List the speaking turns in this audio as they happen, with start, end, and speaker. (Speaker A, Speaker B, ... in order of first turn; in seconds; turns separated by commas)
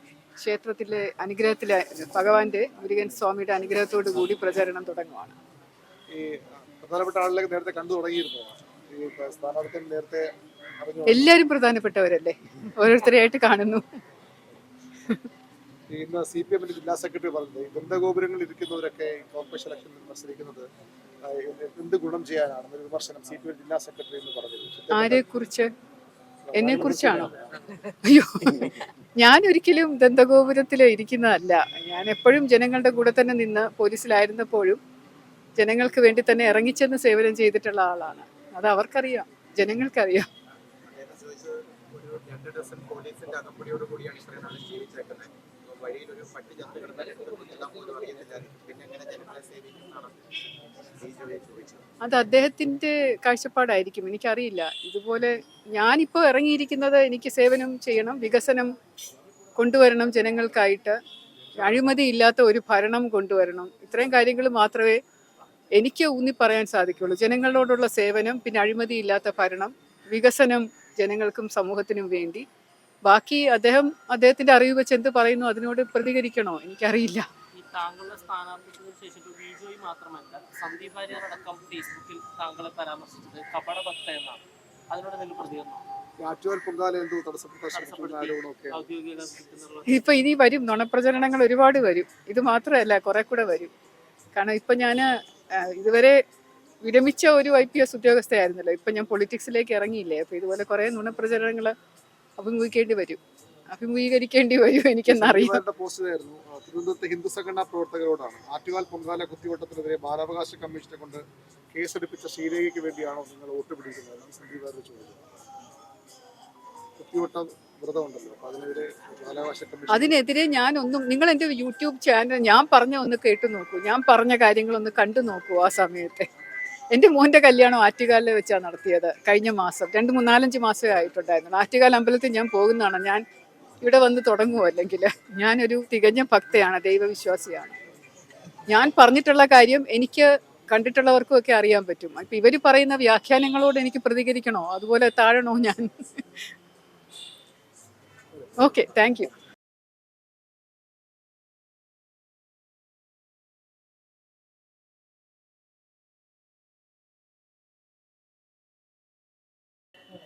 Speaker A: 0.4-5.3, Speaker B: 6.1-11.3, Speaker A: 11.1-13.8, Speaker B: 15.9-20.7, Speaker B: 21.2-25.3, Speaker A: 24.9-25.7, Speaker B: 26.5-27.4, Speaker A: 26.5-27.3, Speaker A: 28.0-34.8, Speaker A: 35.5-40.3, Speaker C: 40.9-50.3, Speaker C: 51.0-51.9, Speaker A: 52.0-58.7, Speaker A: 59.5-61.0, Speaker A: 61.6-65.0, Speaker A: 65.8-72.5, Speaker A: 73.0-77.2, Speaker D: 77.5-85.8, Speaker B: 86.2-88.8, Speaker D: 87.7-89.9, Speaker A: 89.9-93.7, Speaker A: 94.3-96.2, Speaker A: 96.8-101.7, Speaker A: 102.4-105.6, Speaker B: 105.1-111.2, Speaker B: 111.7-115.2, Speaker B: 117.0-120.2, Speaker A: 119.9-126.3, Speaker A: 126.9-133.2, Speaker A: 133.8-137.8, Speaker A: 138.7-146.5, Speaker A: 148.6-149.3